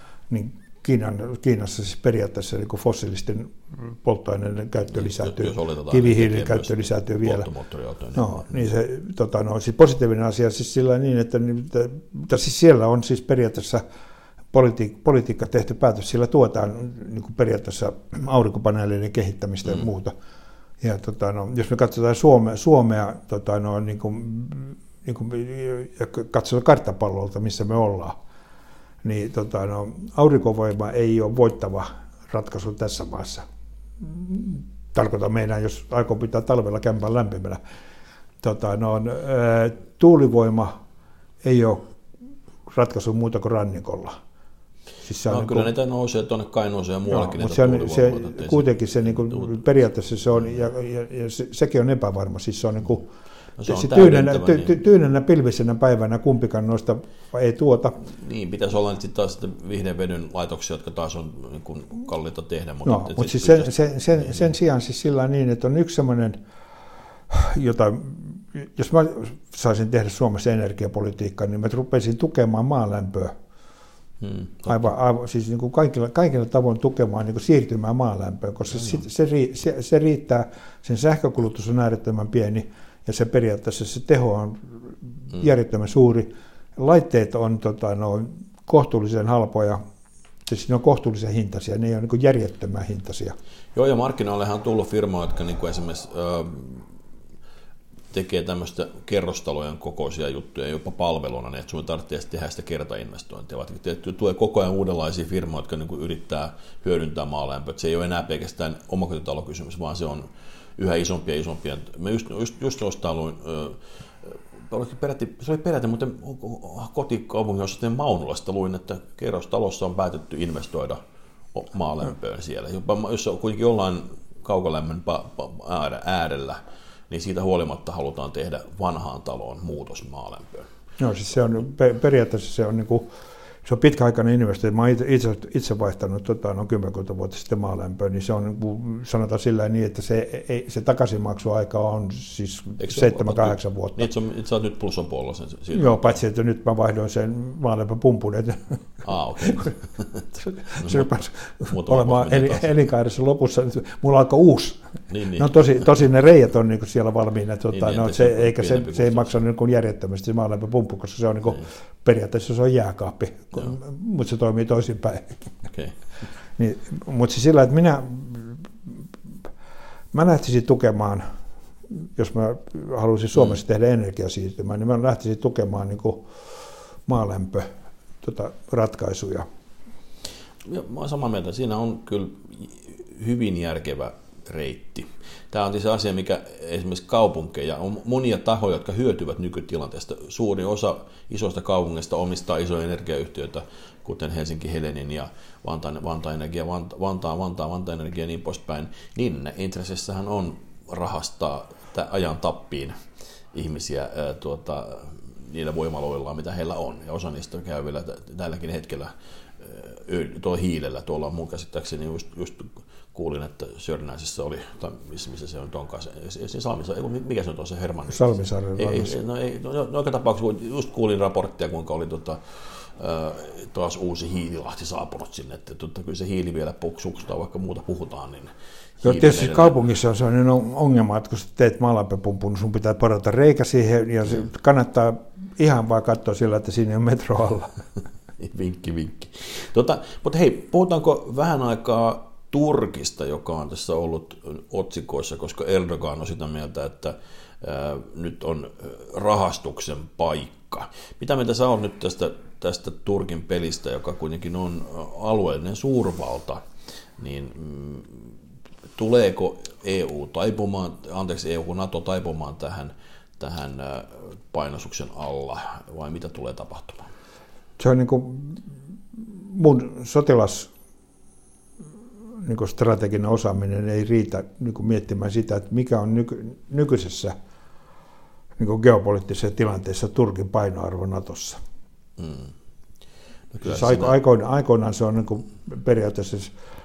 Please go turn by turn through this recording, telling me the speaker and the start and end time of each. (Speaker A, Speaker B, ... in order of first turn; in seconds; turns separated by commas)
Speaker A: 0.3-7.5, Speaker B: 4.9-8.7, Speaker A: 8.1-13.8, Speaker A: 14.5-20.1, Speaker A: 20.8-28.2, Speaker A: 29.0-33.5, Speaker A: 34.0-37.6, Speaker A: 38.4-40.8, Speaker A: 41.4-41.9, Speaker A: 42.7-44.2, Speaker A: 45.0-45.7, Speaker B: 45.3-49.6, Speaker A: 47.1-53.1, Speaker B: 53.6-54.7, Speaker A: 53.7-58.0, Speaker B: 58.1-64.4, Speaker A: 62.9-66.4, Speaker A: 67.3-73.3, Speaker B: 74.2-74.9, Speaker A: 74.7-89.8, Speaker A: 90.5-93.4, Speaker B: 93.8-96.9, Speaker B: 98.1-121.0, Speaker B: 121.5-126.6, Speaker B: 127.1-130.7, Speaker A: 131.0-133.1, Speaker A: 133.6-144.1, Speaker B: 142.8-146.2, Speaker A: 145.7-148.8, Speaker B: 149.0-151.1, Speaker A: 149.4-149.7, Speaker A: 150.4-154.8, Speaker B: 151.7-152.7, Speaker B: 155.1-155.7, Speaker A: 155.3-165.5, Speaker B: 157.7-159.3, Speaker A: 166.6-168.7, Speaker A: 170.1-171.3, Speaker A: 171.9-176.3, Speaker A: 177.1-177.7, Speaker A: 178.2-179.5, Speaker B: 180.7-203.0, Speaker B: 203.5-229.7, Speaker A: 218.1-219.2, Speaker A: 229.0-237.7, Speaker B: 238.4-256.6, Speaker B: 257.2-258.3, Speaker B: 259.0-267.1, Speaker A: 267.8-268.6, Speaker A: 269.2-270.7, Speaker A: 272.4-277.4, Speaker A: 278.6-281.6, Speaker B: 282.2-282.5, Speaker B: 283.5-284.2, Speaker A: 283.6-286.5